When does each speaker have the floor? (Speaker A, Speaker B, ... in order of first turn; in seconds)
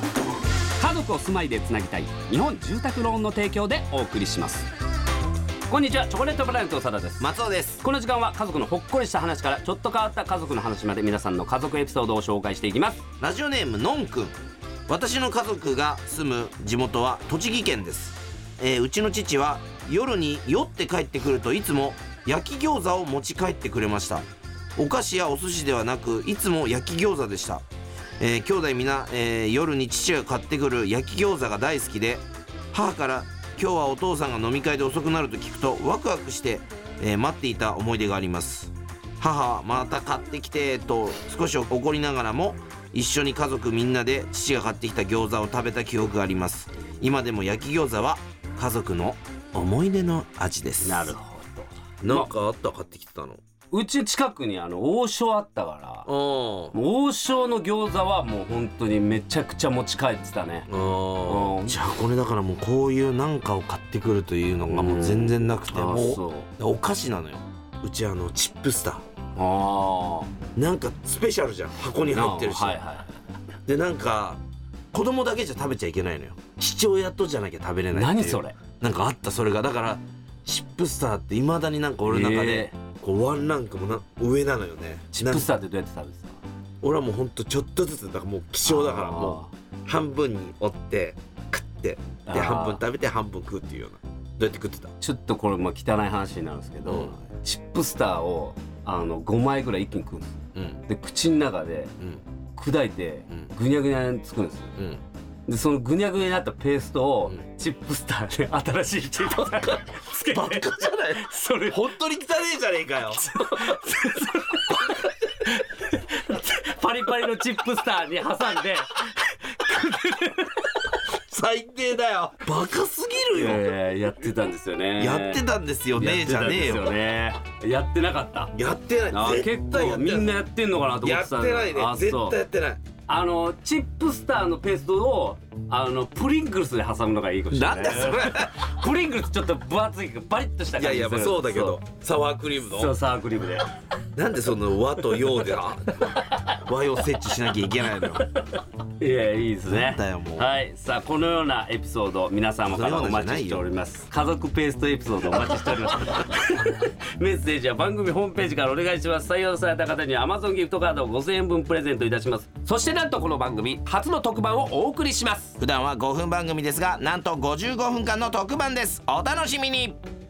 Speaker A: 0.8-4.7, 5.7-7.3, 7.8-13.0, 50.8-52.3, 53.7-56.1, 56.7-60.7, 61.2-61.8, 64.7-66.5, 69.3-70.3, 72.1-73.1, 77.9-78.6, 82.0-82.7, 85.1-86.4, 88.6-89.5, 92.2-92.8, 95.0-101.9, 102.5-104.8, 105.5-111.9, 113.2-120.9, 123.3-128.5, 129.1-132.4, 133.1-141.8, 142.7-143.7, 148.4-162.7
Speaker B: 7.2-7.8, 13.2-14.3, 14.9-24.2, 24.8-27.6, 28.2-51.1, 52.0-53.4, 56.1-56.7, 60.7-69.0, 70.5-72.8, 73.7-74.4, 74.9-85.5, 86.8-94.9, 96.8-97.1, 104.8-105.0, 110.3-113.8, 121.1-123.7, 125.0-126.9, 128.5-130.4, 131.0-132.8, 137.5-138.7, 140.8-142.9, 144.1-148.3, 149.7-150.5, 152.7-153.7, 165.6-170.0
Speaker C: 162.6-165.5